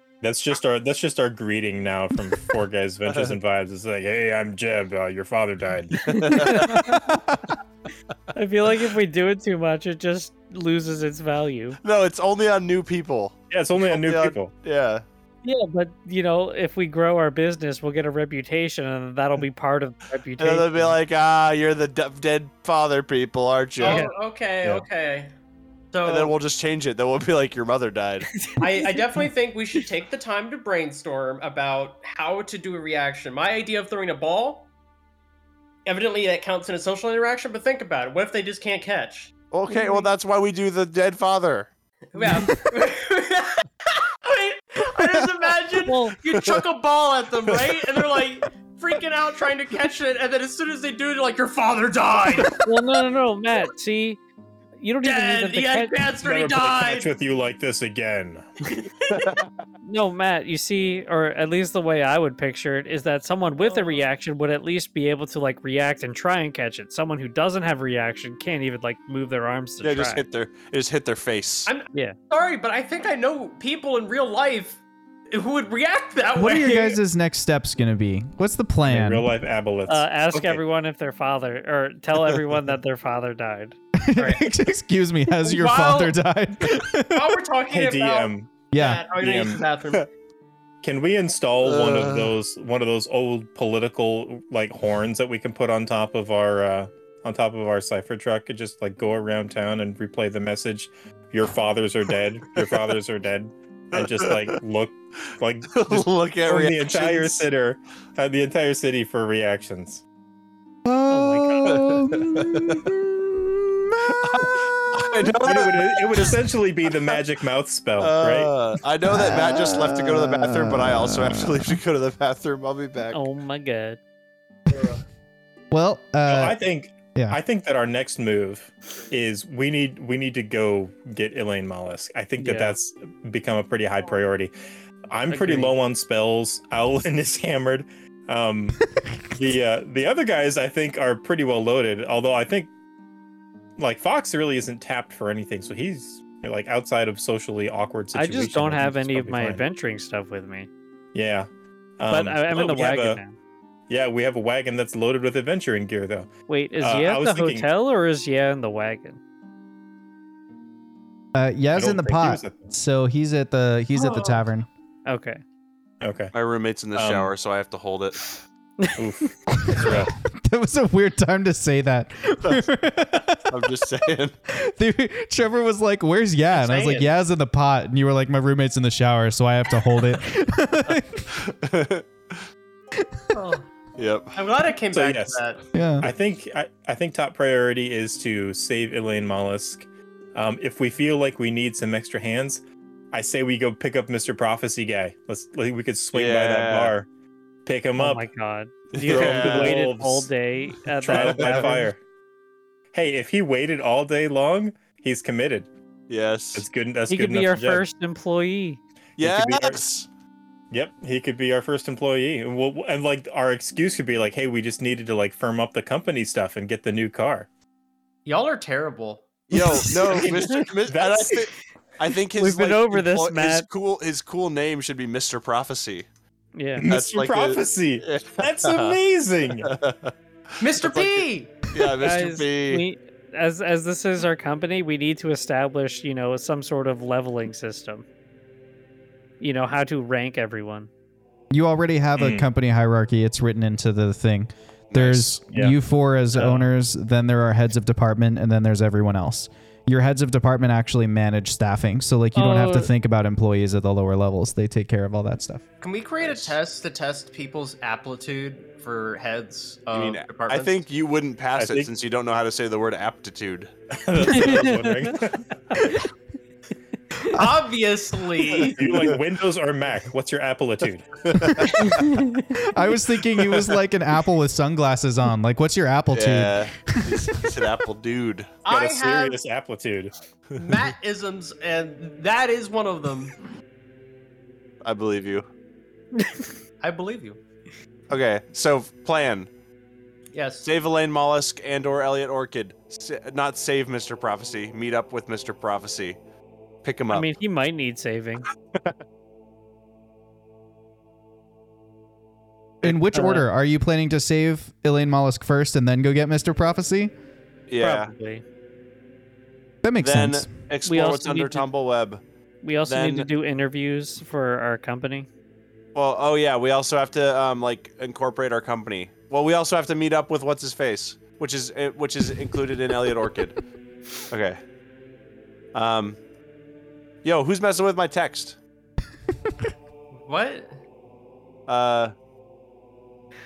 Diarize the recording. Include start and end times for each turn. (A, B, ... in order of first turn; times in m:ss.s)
0:00.2-0:06.1 A
0:06.0-0:07.0 B
0:06.1-0:07.0 C
0:06.8-0:07.3 D
0:08.3-0:11.8 C
0:11.8-0:15.0 B
0:13.5-0:14.5 A
0:15.4-0:21.0 C
0:20.4-0:24.1 B
0:23.8-0:25.3 E
0:23.8-0:24.1 C
0:25.9-0:26.4 E
0:26.0-0:28.3 B
0:28.3-0:28.9 C
0:28.6-0:34.7 E
0:35.9-0:40.0 E
0:39.5-0:41.7 B
0:42.1-0:52.6 E
0:45.8-0:46.2 C
0:47.6-0:48.2 B
0:52.5-0:54.2 C
0:54.8-0:56.1 C
0:55.0-0:57.1 E
0:56.2-0:58.5 A
0:59.1-0:59.5 B
0:59.8-1:10.2 C
1:03.6-1:04.0 E
1:09.8-1:11.7 B
1:11.7-1:14.8 E
1:15.3-1:17.0 E
1:16.4-1:19.3 D
1:18.8-1:20.6 A
1:19.9-1:23.8 C
1:24.0-1:27.3 D
1:24.2-1:24.5 E
1:25.4-1:26.2 E
1:27.0-1:30.1 E
1:27.7-1:28.6 A
1:28.7-1:29.1 D
1:29.2-1:29.6 A
1:30.8-1:50.0 A
1:31.6-1:32.4 B
1:43.9-1:44.6 B
1:45.7-1:47.4 B
1:50.8-1:54.6 D
1:51.1-1:51.8 C
1:51.6-1:52.8 B
1:54.2-1:56.4 B
1:55.4-1:58.5 A
1:58.0-2:03.2 B
1:59.0-2:01.8 D
2:03.1-2:04.0 C
2:05.7-2:06.6 D
2:06.3-2:14.5 A
2:12.4-2:12.8 C
2:15.1-2:18.8 A
2:15.3-2:15.7 C
2:19.3-2:22.7 A
2:23.8-2:29.6 A
2:28.1-2:30.7 C
2:31.1-2:31.5 A
2:32.0-2:33.2 A
2:32.1-2:33.3 C
2:33.9-2:37.7 A
2:36.5-2:39.2 C
2:41.3-2:44.7 D
2:41.8-2:42.7 A
2:43.9-2:44.4 E
2:45.1-2:45.4 C
2:46.0-2:46.3 A
2:46.3-2:48.4 B
2:47.0-2:47.3 A
2:48.8-2:49.3 C
2:49.0-2:50.1 A
2:49.6-2:53.7 D
2:53.5-2:54.4 B
2:54.5-3:01.3 D
2:56.5-2:57.1 E
3:01.3-3:02.4 B
3:03.3-3:03.7 E
3:04.0-3:04.4 B
3:04.4-3:05.6 E
3:04.9-3:05.4 A
3:05.7-3:06.1 D
3:06.0-3:17.1 A
3:16.1-3:16.9 B
3:17.6-3:18.3 A
3:18.0-3:21.9 C
3:18.9-3:19.8 B
3:19.1-3:20.3 A
3:21.0-3:22.0 A
3:21.1-3:21.8 B
3:22.9-3:25.7 A
3:26.1-3:26.6 B
3:26.5-3:27.9 A
3:27.1-3:28.8 C
3:29.2-3:29.8 A
3:29.2-3:30.1 B
3:30.7-3:37.5 A
3:38.3-3:40.5 E
3:39.5-3:46.1 B
3:40.9-3:41.4 A
3:42.4-3:43.7 C
3:46.6-3:46.9 C
3:46.8-3:49.7 A
3:46.8-3:49.0 B
3:49.6-3:52.8 B
3:50.6-3:51.6 E
3:52.0-3:58.0 C
3:59.4-4:00.9 C
4:01.5-4:15.6 D
4:02.2-4:02.5 A
4:04.9-4:05.3 B
4:05.5-4:05.8 A
4:12.4-4:12.9 C
4:15.8-4:20.8 E
4:16.2-4:16.6 B
4:19.9-4:23.7 B
4:21.6-4:21.9 A
4:24.0-4:25.4 A
4:24.3-4:25.2 C
4:25.7-4:26.0 C
4:27.3-4:29.0 E
4:28.8-4:31.2 A
4:31.3-4:31.7 B
4:31.4-4:31.8 D
4:31.8-4:32.5 C
4:32.5-4:37.5 D
4:36.1-4:38.5 B
4:38.6-4:39.4 E
4:38.7-4:40.1 A
4:40.6-4:43.4 E
4:44.8-4:45.5 B
4:46.2-4:46.5 C
4:46.8-4:47.4 E
4:48.1-4:49.5 B
4:50.3-4:50.7 E
4:50.6-4:56.2 B
4:56.8-4:57.3 B
4:57.1-4:58.5 C
5:02.8-5:07.1 D
5:03.1-5:03.4 C
5:07.7-5:08.1 B
5:07.8-5:08.4 C
5:09.8-5:10.5 D
5:10.0-5:12.2 B
5:10.9-5:11.7 C
5:12.6-5:15.3 C
5:12.9-5:13.3 B
5:16.0-5:23.6 B
5:24.3-5:24.6 B
5:25.7-5:26.2 B
5:27.2-5:28.6 B
5:30.2-5:30.8 E
5:31.7-5:32.1 B